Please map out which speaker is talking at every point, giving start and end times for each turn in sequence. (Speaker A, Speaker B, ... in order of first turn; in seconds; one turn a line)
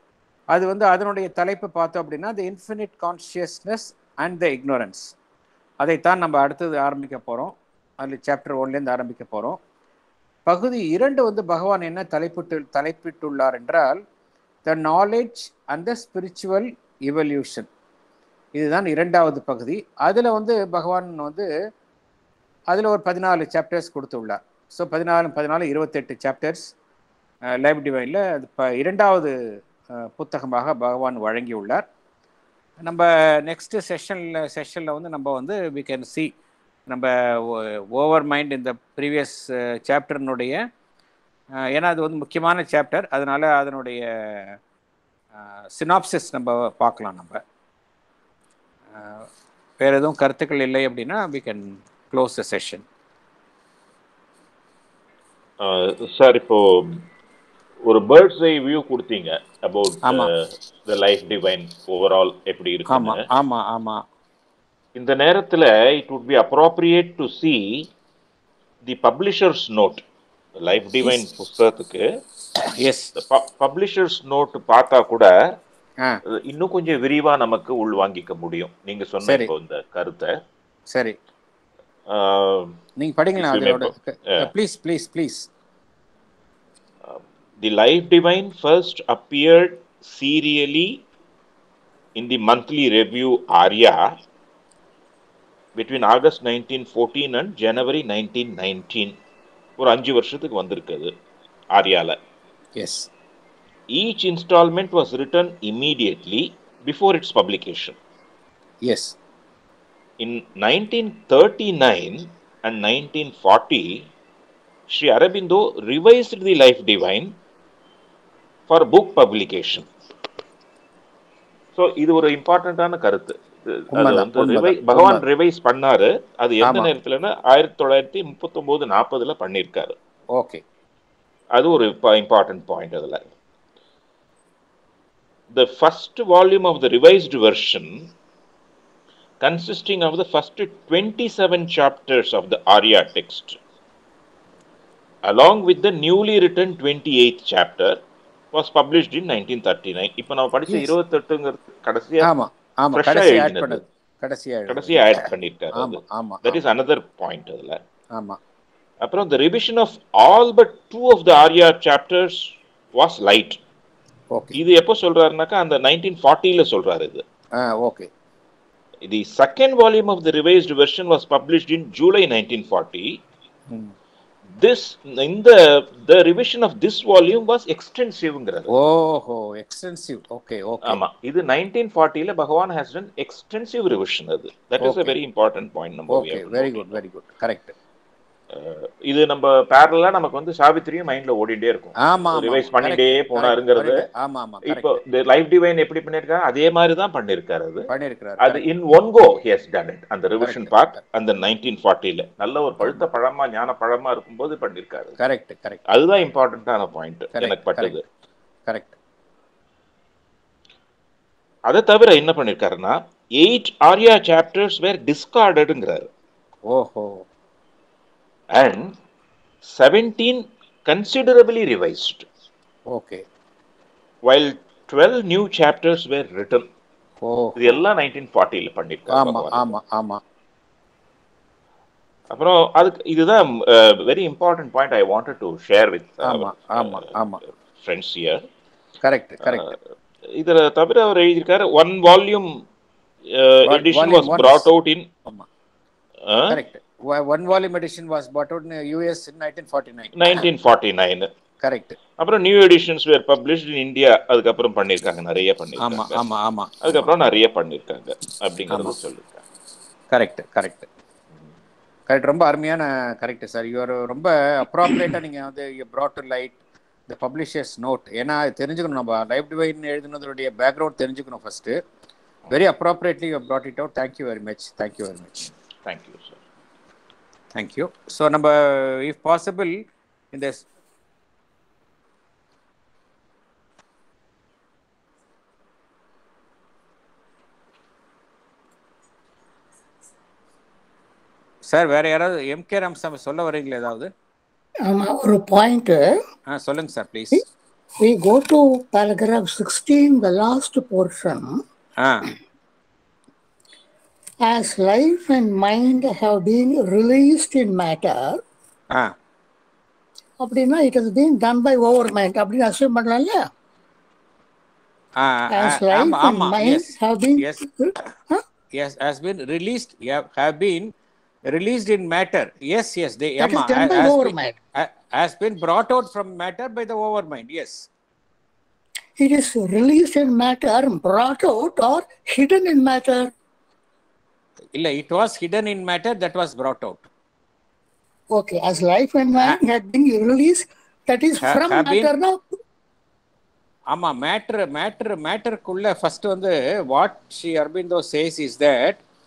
Speaker A: 0.5-5.2
Speaker A: 5.8-9.6
Speaker A: 10.5-14.0
Speaker A: 14.7-17.7
Speaker A: 18.6-21.5
Speaker A: 22.7-26.7
Speaker A: 27.6-29.3
Speaker A: 29.9-31.9
Speaker A: 32.8-36.3
Speaker A: 36.9-40.6
Speaker A: 41.6-44.6
Speaker A: 45.4-47.4
Speaker A: 48.9-49.3
Speaker A: 49.8-52.9
Speaker B: 55.6-57.0
Speaker B: 57.9-63.2
Speaker A: 60.0-60.3
Speaker A: 62.9-64.0
Speaker B: 65.0-67.8
Speaker B: 68.9-70.0
Speaker B: 70.6-72.0
Speaker A: 72.8-73.1
Speaker B: 73.2-75.3
Speaker B: 76.3-80.3
Speaker A: 79.2-79.5
Speaker A: 80.9-81.2
Speaker B: 82.1-82.8
Speaker A: 83.0-85.5
Speaker B: 83.4-84.5
Speaker B: 87.1-91.0
Speaker B: 92.2-94.2
Speaker B: 95.8-99.2
Speaker B: 99.8-101.1
Speaker B: 101.7-102.2
Speaker A: 102.8-103.1
Speaker B: 103.9-108.0
Speaker A: 108.8-109.2
Speaker B: 110.2-114.0
Speaker B: 114.9-117.3
Speaker B: 118.7-119.9
Speaker B: 121.8-129.9
Speaker A: 123.9-125.2
Speaker A: 126.6-126.9
Speaker A: 130.3-130.6
Speaker B: 131.6-133.3
Speaker B: 135.5-138.1
Speaker B: 139.4-143.6
Speaker B: 145.3-148.0
Speaker B: 148.5-152.3
Speaker A: 152.2-155.2
Speaker B: 152.9-153.8
Speaker B: 154.7-157.8
Speaker A: 155.8-156.6
Speaker A: 158.1-158.4
Speaker B: 159.0-163.6
Speaker B: 164.6-167.2
Speaker A: 167.6-168.1
Speaker B: 169.1-173.2
Speaker B: 174.6-178.7
Speaker A: 178.7-181.0
Speaker B: 180.9-187.0
Speaker A: 184.8-185.1
Speaker A: 186.1-187.7
Speaker B: 188.5-194.1
Speaker A: 192.0-194.9
Speaker B: 194.7-197.9
Speaker A: 197.9-198.6
Speaker B: 198.4-205.2
Speaker A: 200.4-200.7
Speaker A: 205.2-205.8
Speaker B: 205.9-208.0
Speaker A: 207.3-207.9
Speaker A: 208.7-209.0
Speaker B: 211.7-216.1
Speaker A: 216.7-217.2
Speaker B: 218.6-218.9
Speaker B: 219.7-222.3
Speaker A: 222.9-223.2
Speaker B: 224.3-226.7
Speaker A: 227.2-227.8
Speaker B: 227.6-229.7
Speaker A: 229.1-230.2
Speaker B: 232.3-237.1
Speaker A: 236.2-237.4
Speaker B: 237.8-238.5
Speaker A: 239.0-239.7
Speaker B: 239.4-239.8
Speaker B: 240.4-242.5
Speaker B: 243.4-245.1
Speaker A: 243.7-244.7
Speaker B: 246.3-246.6
Speaker A: 246.5-250.4
Speaker B: 250.2-251.3
Speaker A: 251.6-252.0
Speaker B: 252.2-256.2
Speaker A: 255.8-257.1
Speaker B: 256.8-259.4
Speaker A: 260.1-260.9
Speaker A: 262.1-266.6
Speaker A: 267.1-271.8
Speaker A: 272.5-275.5
Speaker B: 275.8-276.4
Speaker A: 277.5-279.8
Speaker A: 280.3-280.6
Speaker A: 291.7-294.1
Speaker C: 294.8-296.1
Speaker A: 296.5-297.4
Speaker C: 298.0-301.6
Speaker A: 302.0-302.3
Speaker C: 304.4-308.4
Speaker C: 310.4-313.5
Speaker A: 315.2-317.6
Speaker C: 315.5-318.4
Speaker A: 318.8-320.9
Speaker A: 321.5-327.9
Speaker C: 323.4-324.6
Speaker C: 329.2-333.3
Speaker A: 334.8-337.1
Speaker C: 338.3-342.6
Speaker A: 341.4-342.1
Speaker A: 343.9-349.0